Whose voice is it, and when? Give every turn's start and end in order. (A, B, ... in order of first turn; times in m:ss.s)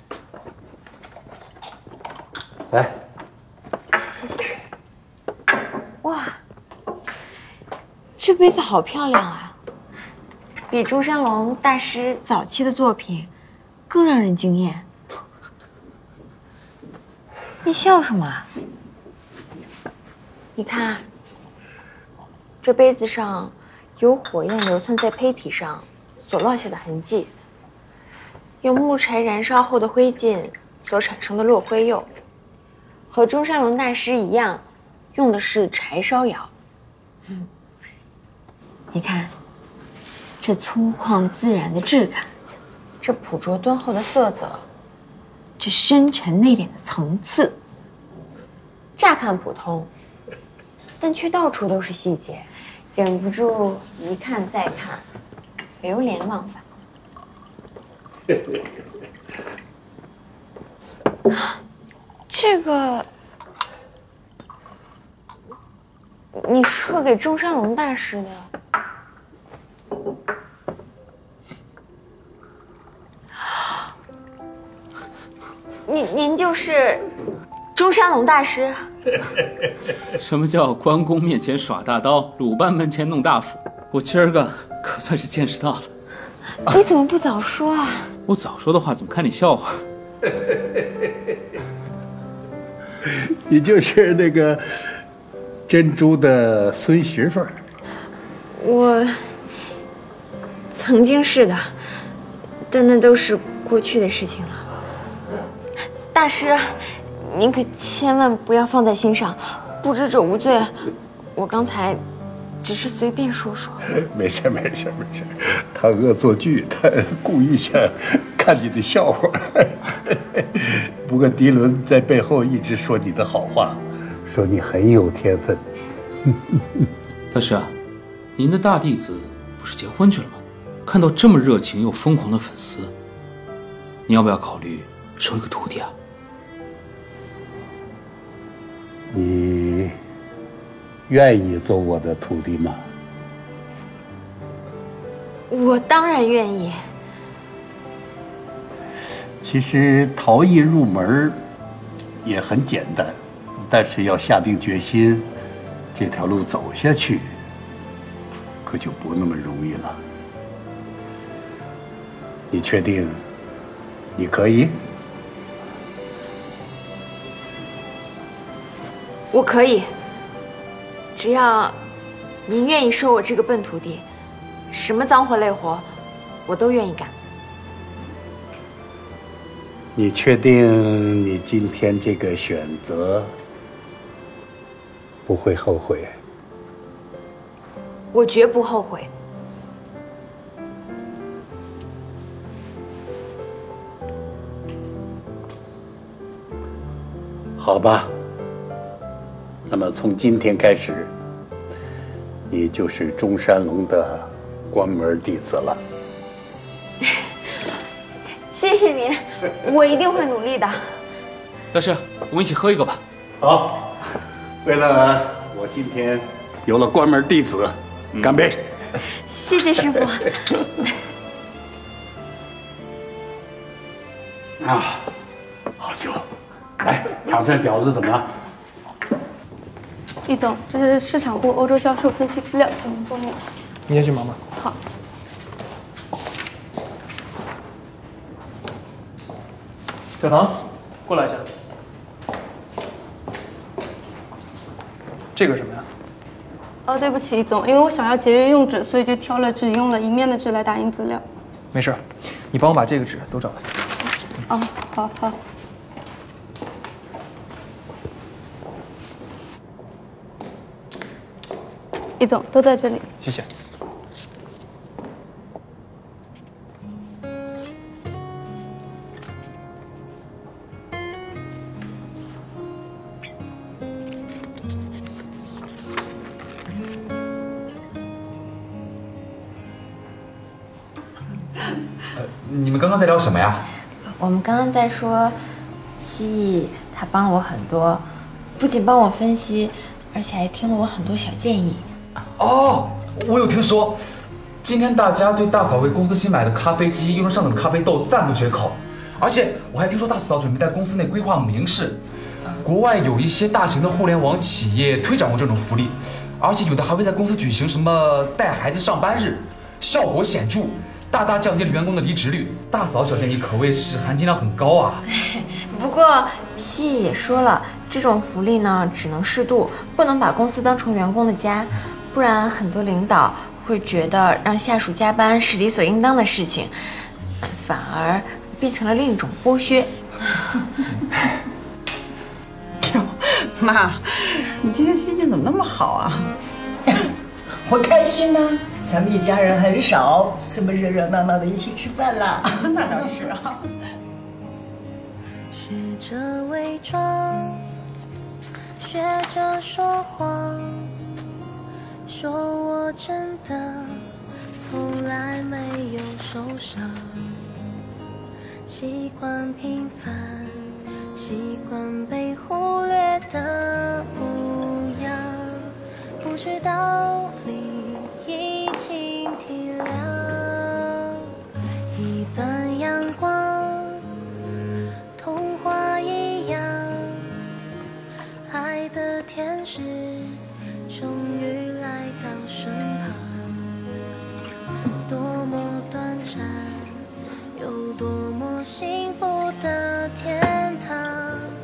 0:03.9-0:04.6 A
0:06.0-0:06.4 A
0:08.2-0:09.6 A
0:10.7-0:13.3 A
0:13.9-0:14.9 A
0:17.6-0:18.5 A
0:20.6-0:21.1 A
0:22.6-0:27.3 A
0:28.6-0:32.1 A
0:33.1-0:36.5 A
0:38.9-0:39.3 A
0:40.4-0:42.3 A
0:43.0-0:44.6 A
0:45.6-0:47.6 A
0:49.0-0:49.9 A
0:51.0-0:55.0 A
0:55.8-0:56.6 A
1:02.3-1:03.1 A
1:06.4-1:08.5 A
1:15.9-1:17.0 A
1:17.7-1:18.9 A
1:20.2-1:25.9 B
1:26.6-1:28.1 A
1:28.3-1:29.8 B
1:30.3-1:30.8 C
1:33.1-1:34.6 C
1:35.7-1:37.6 C
1:38.6-1:39.3 A
1:40.7-1:41.8 A
1:42.7-1:44.7 A
1:46.1-1:50.8 A
1:51.4-1:52.0 A
1:52.6-1:53.8 A
1:54.0-2:05.6 C
2:06.3-2:06.8 C
2:07.3-2:07.7 B
2:08.4-2:12.9 B
2:14.1-2:15.9 B
2:19.1-2:20.0 C
2:21.1-2:22.8 C
2:25.5-2:26.8 A
2:29.4-2:31.4 C
2:32.2-2:35.3 C
2:35.9-2:37.3 C
2:38.6-2:40.0 C
2:42.5-2:43.2 C
2:44.2-2:44.8 C
2:49.3-2:49.9 A
2:51.1-2:51.8 A
2:52.4-2:54.1 A
2:54.7-2:55.9 A
2:56.4-2:57.1 A
2:59.9-3:03.3 C
3:05.2-3:06.2 C
3:08.1-3:09.1 A
3:17.6-3:18.1 C
3:19.6-3:21.1 C
3:22.5-3:25.8 C
3:28.5-3:31.0 A
3:31.7-3:33.0 B
3:33.4-3:34.0 C
3:34.6-3:38.7 C
3:39.2-3:40.6 A
3:44.6-3:45.1 C
3:45.8-3:46.3 C
3:46.8-3:48.3 C
3:50.2-3:53.4 D
3:53.9-3:54.4 E
4:00.2-4:01.5 E
4:05.4-4:05.9 E
4:06.9-4:11.2 D
4:11.7-4:13.6 E
4:14.5-4:15.4 D
4:22.2-4:23.0 D
4:23.2-4:23.5 E
4:42.2-4:43.6 F
4:44.1-4:45.4 A
4:46.0-4:51.9 A
4:52.4-4:54.0 F
4:54.6-5:02.0 F
5:02.6-5:15.0 F
5:15.1-5:29.9 A
5:32.8-5:36.3 G
5:37.6-5:42.5 H
5:42.5-5:43.6 G
5:45.6-5:47.4 I
5:48.8-5:50.6 I
5:52.1-5:53.8 I
5:54.6-5:56.9 I
5:58.7-6:00.5 I
6:01.2-6:05.5 I
6:06.2-6:10.8 I
6:11.9-6:13.9 I
6:15.2-6:17.1 I
6:18.5-6:20.4 I
6:20.9-6:23.4 I
6:25.1-6:26.8 I
6:27.6-6:31.4 I